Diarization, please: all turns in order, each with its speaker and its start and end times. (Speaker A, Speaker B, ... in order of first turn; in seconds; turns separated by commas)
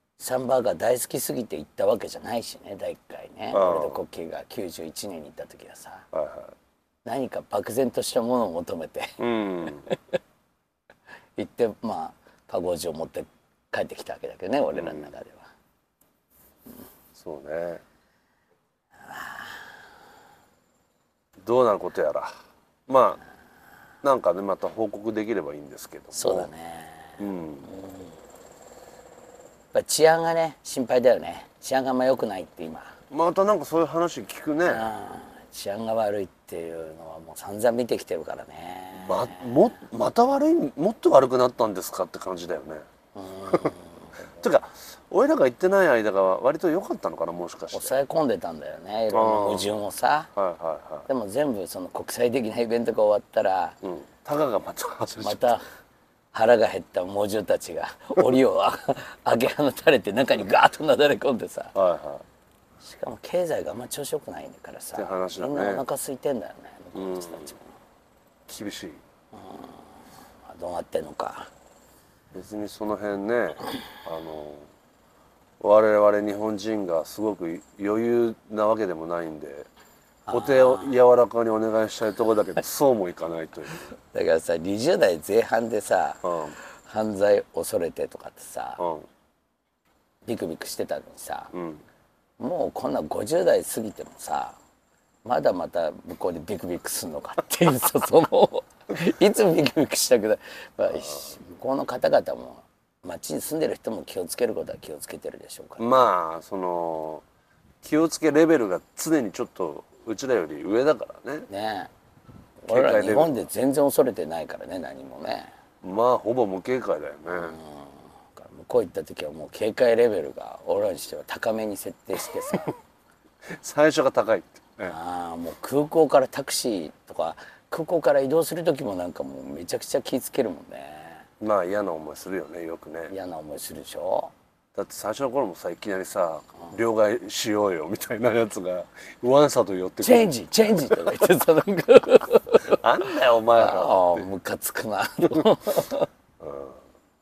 Speaker A: 0.2-6.1, Speaker B: 3.5-4.0, Speaker B: 6.1-6.5, Speaker A: 7.0-9.2, Speaker B: 9.2-9.9, Speaker A: 11.4-15.5, Speaker B: 14.7-15.1, Speaker B: 17.1-17.8, Speaker A: 19.1-19.6, Speaker B: 21.4-22.3, Speaker B: 22.9-23.2, Speaker B: 24.0-26.5, Speaker A: 26.1-28.0, Speaker B: 27.2-27.7, Speaker A: 29.7-32.9, Speaker B: 33.1-34.9, Speaker A: 34.6-39.5, Speaker B: 39.0-42.8, Speaker A: 43.1-44.4, Speaker B: 44.4-48.0, Speaker A: 47.7-50.3, Speaker B: 49.1-49.7, Speaker B: 50.3-51.1, Speaker A: 51.1-53.8, Speaker B: 53.8-55.6, Speaker A: 55.2-55.6, Speaker A: 56.3-61.7, Speaker B: 61.7-62.2, Speaker A: 62.8-67.6, Speaker B: 65.0-65.8, Speaker B: 66.9-67.5, Speaker B: 68.5-69.0, Speaker A: 69.3-69.8, Speaker A: 70.4-71.5, Speaker B: 72.3-74.7, Speaker B: 75.6-79.7, Speaker A: 80.3-80.9, Speaker B: 80.3-83.9, Speaker A: 84.1-86.2, Speaker B: 86.2-86.6, Speaker A: 86.8-88.8, Speaker B: 88.8-89.1, Speaker A: 90.2-91.5, Speaker B: 91.5-91.8, Speaker A: 92.4-94.6, Speaker A: 95.2-106.0, Speaker B: 105.8-107.2, Speaker B: 107.8-111.5, Speaker A: 111.5-111.9, Speaker A: 112.6-115.5, Speaker B: 112.7-113.3, Speaker B: 115.8-117.6, Speaker A: 117.3-122.7, Speaker B: 123.5-124.9, Speaker A: 124.9-131.2, Speaker B: 131.4-133.1, Speaker A: 133.1-134.3, Speaker B: 134.7-141.2, Speaker A: 140.0-142.8, Speaker B: 142.6-144.2, Speaker A: 143.5-146.1, Speaker B: 146.4-146.8